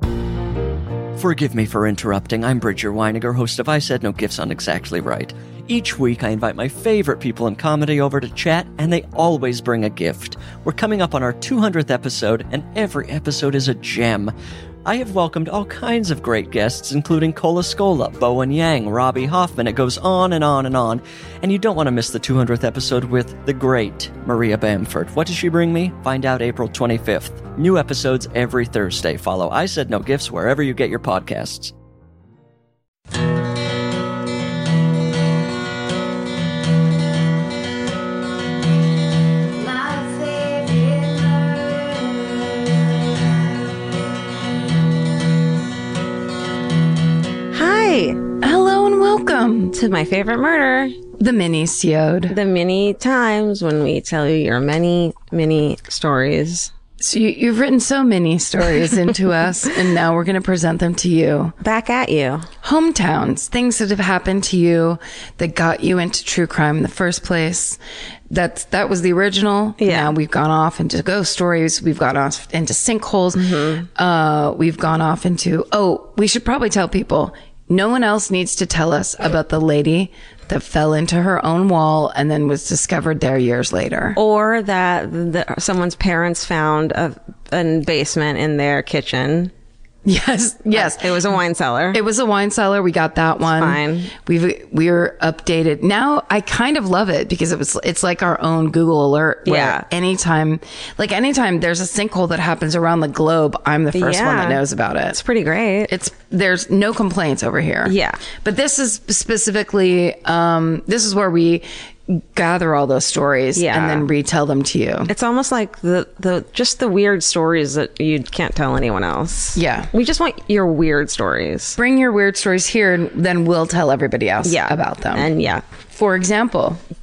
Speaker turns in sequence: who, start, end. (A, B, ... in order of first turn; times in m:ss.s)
0:01.2-0:14.3 A
0:14.8-0:31.7 A
0:39.6-0:42.1 B
0:47.5-0:48.3 C
0:48.4-0:49.7 B
0:49.7-0:51.0 C
0:51.2-0:52.4 B
0:52.3-0:56.7 C
0:57.0-1:01.6 B
1:01.6-1:02.5 C
1:02.6-1:07.8 B
1:08.3-1:24.2 B
1:09.8-1:10.1 C
1:13.4-1:13.8 C
1:24.2-1:29.5 C
1:30.0-1:31.2 B
1:30.7-1:32.0 C
1:31.9-1:45.2 B
1:33.5-1:34.1 C
1:39.4-1:39.8 C
1:43.9-1:45.9 C
1:45.9-1:55.1 B
1:47.8-1:48.2 C
1:53.5-1:54.1 C
1:55.1-2:01.8 C
1:59.5-1:59.9 B
2:01.8-2:05.3 B
2:04.4-2:05.6 C
2:05.9-2:06.8 B